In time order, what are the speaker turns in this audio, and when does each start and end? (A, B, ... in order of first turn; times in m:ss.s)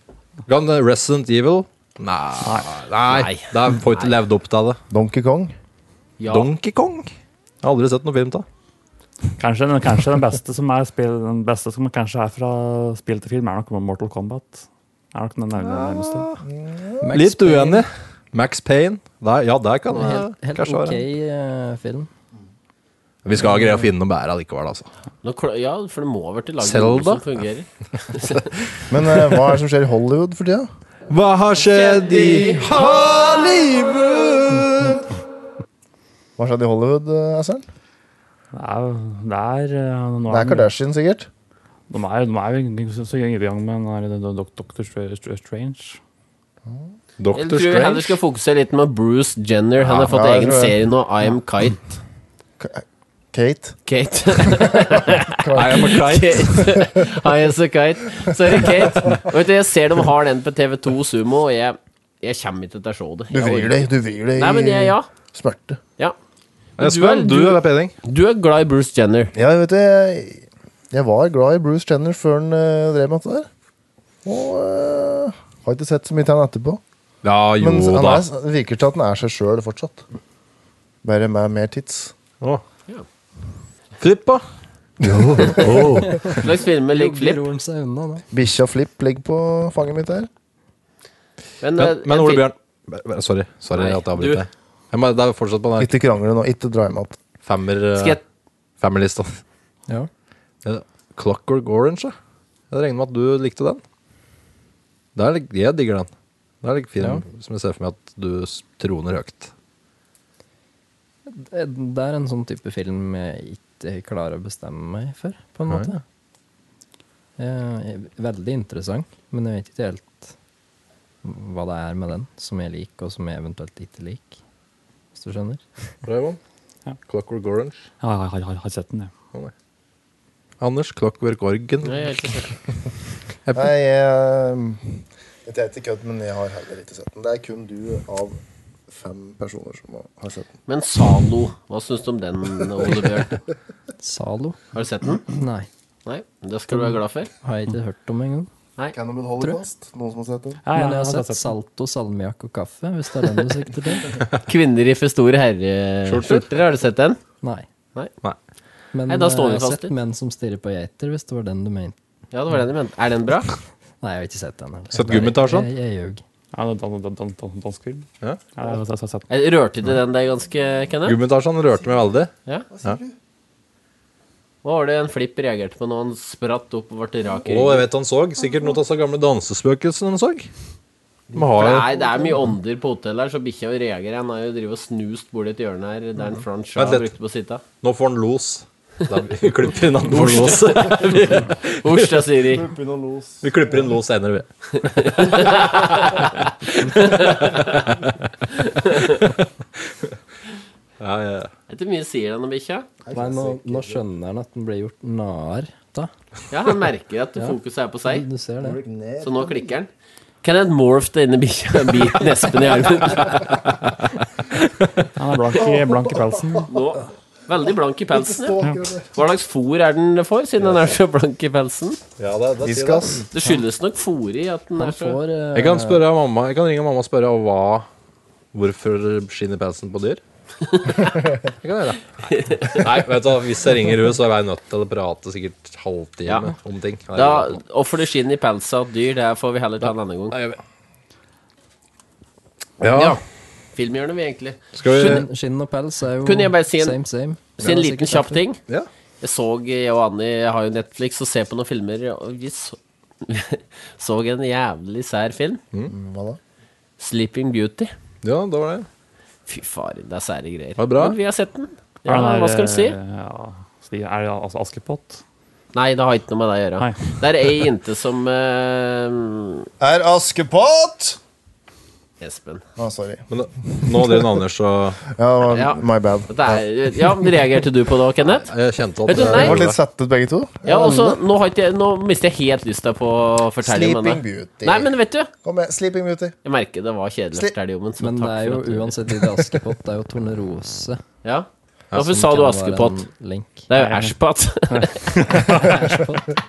0:00.5-0:04.8 A
0:02.4-0:02.7 B
0:03.1-0:04.2 C
0:04.9-0:05.5 D
0:06.2-0:06.5 C
0:06.3-0:07.1 A
0:07.6-0:08.4 A
0:09.4-0:16.3 B
0:15.6-0:16.4 A
0:16.4-0:17.0 D
0:17.0-0:17.9 E
0:17.1-0:21.0 A
0:19.9-0:22.1 E
0:23.2-0:24.9 A
0:25.2-0:28.4 C
0:26.6-0:27.2 A
0:28.9-0:30.7 D
0:31.1-0:35.0 A
0:31.7-0:32.7 C
0:36.4-0:37.6 D
0:38.5-0:40.7 B
0:40.3-0:41.3 D
0:41.9-0:46.0 B
0:47.2-0:48.2 A
0:47.4-0:51.9 C
0:49.9-0:50.8 D
0:52.6-0:53.8 D
0:53.9-1:05.1 C
0:55.1-0:56.0 D
0:55.6-0:56.7 A
1:03.3-1:05.8 D
1:06.8-1:07.9 A
1:06.8-1:09.3 C
1:09.4-1:13.5 D
1:14.2-1:16.8 D
1:17.2-1:18.2 A
1:17.6-1:20.0 D
1:21.0-1:22.1 D
1:24.0-1:24.4 A
1:25.0-1:26.4 A
1:25.2-1:25.8 D
1:26.1-1:28.2 E
1:26.3-1:27.4 C
1:28.3-1:30.3 D
1:31.6-1:32.4 C
1:31.8-1:36.0 A
1:33.8-1:34.4 C
1:35.8-1:37.2 D
1:37.4-1:38.2 A
1:38.0-1:38.2 C
1:38.8-1:39.4 A
1:40.6-1:42.2 A
1:42.7-1:43.8 A
1:45.2-1:46.1 A
1:46.6-1:49.5 A
1:51.3-1:56.0 E
1:57.4-2:00.3 E
2:01.2-2:04.4 E
2:05.1-2:05.6 E
2:06.0-2:06.4 A
2:07.1-2:07.8 A
2:08.0-2:09.1 B
2:10.6-2:12.3 A
2:11.8-2:12.5 C
2:13.5-2:20.5 D
2:20.7-2:23.4 C
2:24.0-2:24.6 E
2:24.7-2:25.3 C
2:25.3-2:25.7 E
2:26.1-2:27.3 C
2:26.8-2:28.5 E
2:28.9-2:30.6 D
2:30.7-2:31.5 B
2:30.7-2:34.2 E
2:34.5-2:37.2 C
2:36.1-2:36.5 A
2:38.9-2:42.0 E
2:39.1-2:39.9 C
2:42.3-2:43.5 C
2:44.0-2:46.2 E
2:44.9-2:45.7 A
2:46.5-2:49.3 B
2:49.3-2:51.2 C
2:51.0-2:52.3 A
2:52.7-2:53.1 D
2:54.6-2:57.9 C
2:57.5-3:00.5 A
3:01.4-3:01.9 A
3:01.4-3:07.6 C
3:06.8-3:07.1 A
3:07.8-3:12.1 A
3:10.0-3:12.7 C
3:12.5-3:13.9 D
3:13.4-3:16.2 A
3:14.8-3:17.8 C
3:16.9-3:18.1 A
3:18.5-3:19.3 C
3:21.0-3:21.5 A
3:21.7-3:22.9 C
3:23.0-3:24.0 D
3:23.1-3:26.1 E
3:26.5-3:28.3 C
3:27.4-3:28.8 E
3:28.6-3:29.7 D
3:29.2-3:29.9 C
3:30.4-3:33.5 C
3:35.2-3:36.7 B
3:35.5-3:36.7 D
3:36.7-3:38.6 C
3:38.1-3:39.2 D
3:39.1-3:42.0 C
3:42.2-3:43.2 A
3:42.6-3:43.2 D
3:43.3-3:45.2 C
3:44.8-3:46.1 E
3:45.5-3:47.9 A
3:48.5-3:50.2 A
3:50.6-3:51.3 C
3:51.6-3:57.6 A
3:52.3-3:52.9 C
3:57.1-4:00.4 C
3:59.8-4:00.6 A
4:02.8-4:03.2 A
4:02.8-4:03.2 C
4:03.7-4:05.3 C
4:04.7-4:05.3 A
4:04.9-4:08.4 E
4:06.2-4:07.0 C
4:07.6-4:08.6 C
4:09.2-4:15.6 C
4:15.9-4:16.4 D
4:17.0-4:17.9 C
4:18.2-4:18.9 A
4:19.5-4:23.0 C
4:20.8-4:21.2 A
4:22.1-4:25.2 B
4:25.7-4:29.7 C
4:26.8-4:27.1 B
4:29.8-4:31.2 D
4:32.2-4:32.6 C
4:32.8-4:34.3 D
4:33.3-4:35.0 A
4:35.1-4:36.6 D
4:35.5-4:38.5 C
4:38.3-4:39.8 A
4:39.1-4:39.6 C
4:39.1-4:41.2 D
4:40.6-4:45.3 C
4:40.8-4:41.1 E
4:43.6-4:44.9 D
4:45.4-4:46.4 D
4:46.4-4:49.0 C
4:48.0-4:51.0 E
4:51.2-4:53.0 C
4:52.0-4:53.7 E
4:53.7-4:55.3 C
4:53.8-4:54.1 B
4:54.7-4:56.0 B